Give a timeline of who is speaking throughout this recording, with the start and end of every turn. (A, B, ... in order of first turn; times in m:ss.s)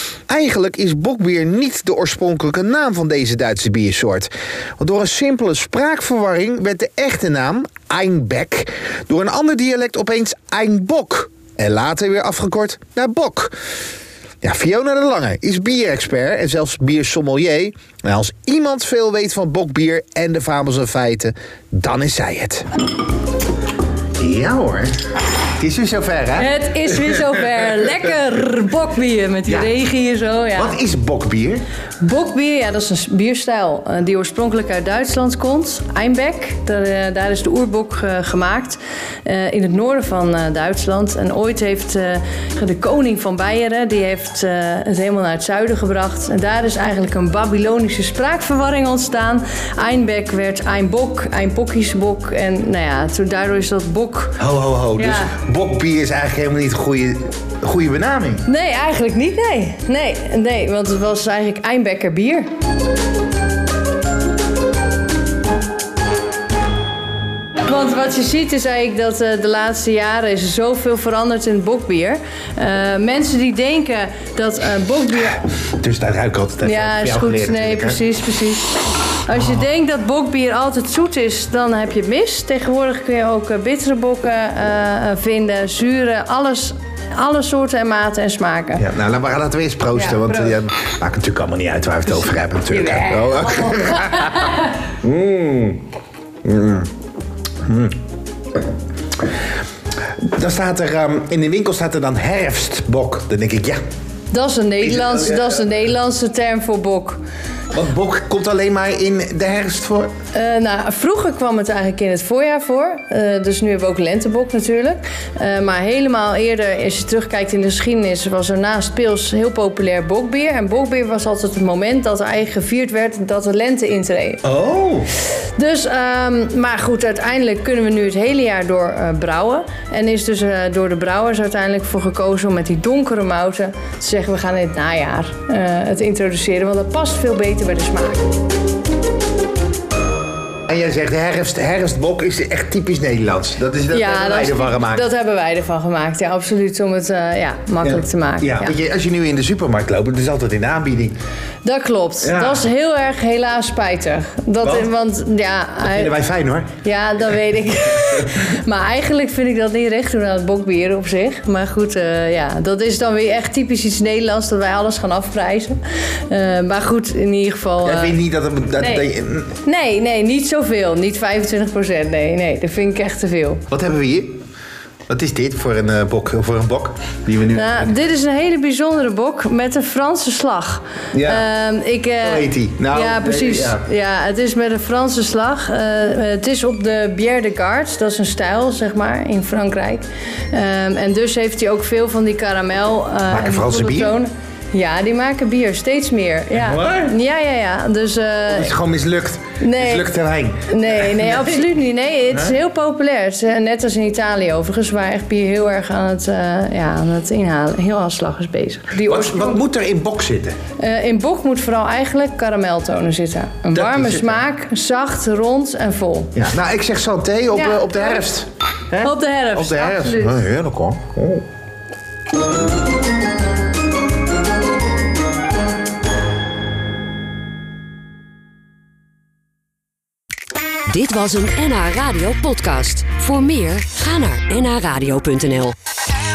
0:00.3-0:13.6 A
0:14.4-0:22.7 A
0:24.2-0:25.0 A
0:25.6-0:26.6 A
0:26.4-0:30.8 B
0:30.5-0:31.6 A
0:32.0-0:54.4 B
0:54.4-0:58.4 A
0:55.0-0:55.4 B
0:58.5-1:02.5 B
1:07.6-1:15.5 B
1:15.5-1:18.0 A
1:16.6-1:28.9 B
1:19.3-1:19.7 A
1:28.8-1:34.5 A
1:29.9-1:30.6 B
1:32.7-1:34.7 B
1:35.0-1:35.8 A
1:36.4-1:36.9 A
1:37.6-1:38.0 A
1:40.2-1:43.8 A
1:44.3-1:47.2 B
1:44.8-1:45.7 A
1:47.7-1:50.1 A
1:50.3-2:04.4 B
2:04.4-2:05.1 A
2:05.6-2:18.3 B
2:20.7-2:25.1 A
2:23.9-2:28.8 B
2:27.8-2:31.2 A
2:31.6-2:36.1 B
2:32.2-2:32.7 A
2:34.6-2:34.9 A
2:35.8-2:36.7 A
2:36.8-2:48.2 B
2:47.8-2:49.6 A
2:48.8-2:49.1 B
2:49.6-2:53.6 B
2:53.7-2:54.4 A
2:55.1-2:57.9 A
2:57.5-3:18.7 B
3:01.1-3:01.5 A
3:02.2-3:03.8 A
3:13.3-3:14.2 A
3:16.5-3:17.1 A
3:18.5-3:21.6 A
3:19.6-3:20.2 B
3:20.7-3:29.6 B
3:22.3-3:22.6 A
3:29.0-3:30.6 A
3:30.8-3:36.4 B
3:33.7-3:34.4 A
3:36.4-3:41.4 A
3:37.5-3:38.3 B
3:39.0-3:40.4 B
3:50.9-3:55.8 C